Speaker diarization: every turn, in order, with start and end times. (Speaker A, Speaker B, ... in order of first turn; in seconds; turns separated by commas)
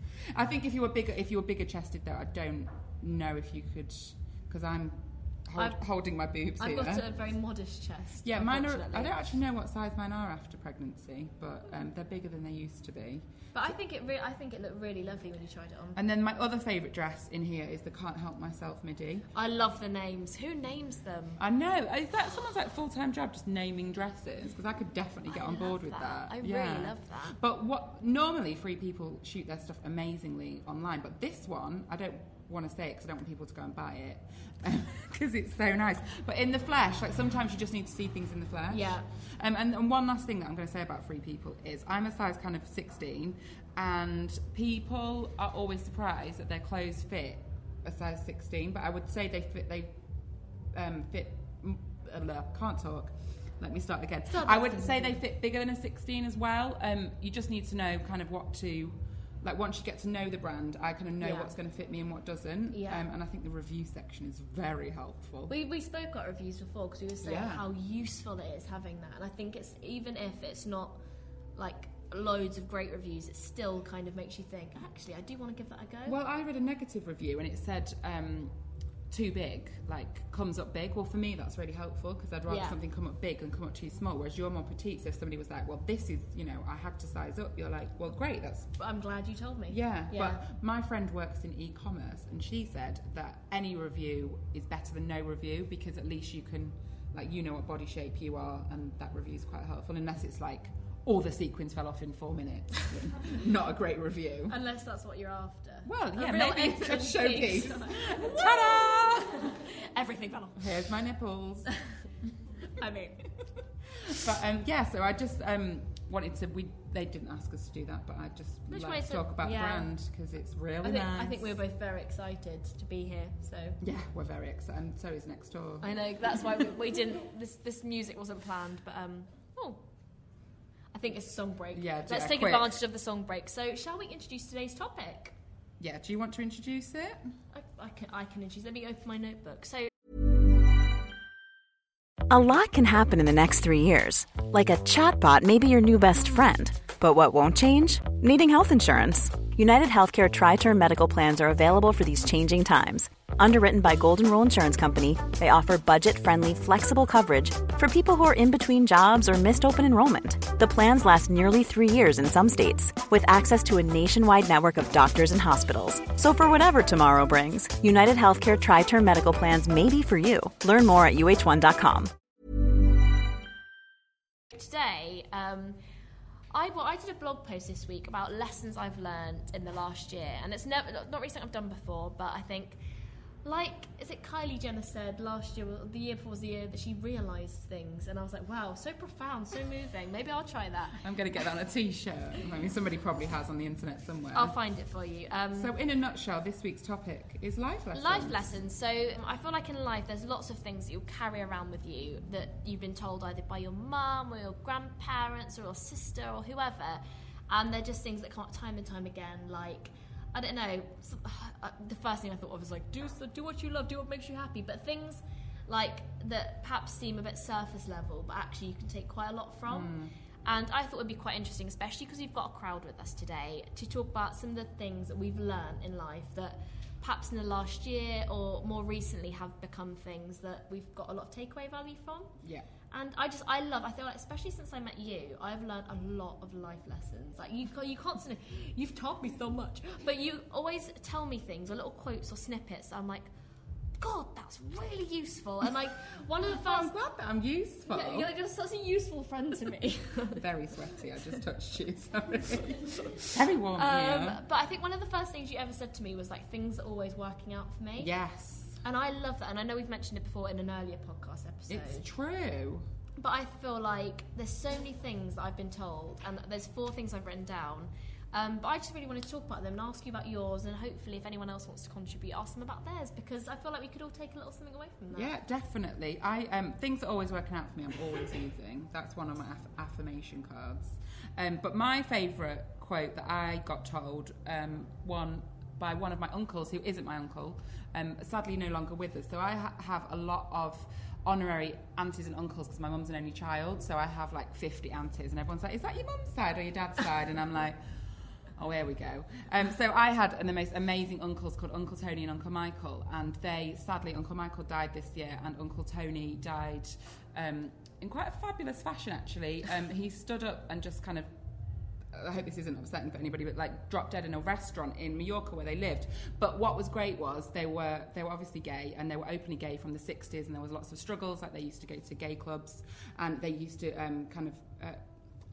Speaker A: 0.3-7.1, Speaker B: 6.6-9.2, Speaker A: 8.2-13.2, Speaker B: 13.5-16.0, Speaker A: 15.9-19.3, Speaker B: 19.3-21.4, Speaker A: 21.4-49.9, Speaker B: 25.3-27.4, Speaker B: 38.7-39.0, Speaker A: 50.7-65.5, Speaker B: 54.3-55.2, Speaker B: 61.2-61.5, Speaker B: 62.7-63.1, Speaker B: 65.5-71.0, Speaker A: 67.2-67.6, Speaker B: 71.5-76.2, Speaker A: 76.0-78.5, Speaker A: 79.1-88.7, Speaker B: 82.5-82.8, Speaker B: 88.8-90.4, Speaker A: 89.7-104.6, Speaker B: 104.5-110.8, Speaker A: 105.8-109.5, Speaker A: 110.5-111.7, Speaker B: 112.7-114.2, Speaker A: 114.0-121.6, Speaker B: 118.7-119.9, Speaker B: 120.8-123.8, Speaker A: 123.8-125.9, Speaker B: 125.8-129.8, Speaker B: 130.9-135.3, Speaker A: 131.7-132.8, Speaker A: 135.8-137.3, Speaker B: 137.5-139.9, Speaker C: 142.3-172.1, Speaker B: 174.5-175.8, Speaker B: 176.5-182.8, Speaker B: 183.4-191.0, Speaker A: 191.0-194.5, Speaker B: 194.3-195.7, Speaker A: 195.5-198.5, Speaker B: 197.9-219.9, Speaker A: 219.7-220.1, Speaker B: 220.4-232.3, Speaker A: 232.4-232.7, Speaker B: 232.9-243.3, Speaker B: 244.0-246.9, Speaker A: 246.5-248.3, Speaker B: 247.9-250.4, Speaker A: 250.3-254.4, Speaker B: 252.7-258.1, Speaker A: 258.0-258.8, Speaker B: 258.8-262.0, Speaker A: 261.7-262.9, Speaker B: 263.2-275.3, Speaker A: 275.1-297.8, Speaker A: 298.6-311.3, Speaker A: 312.1-325.0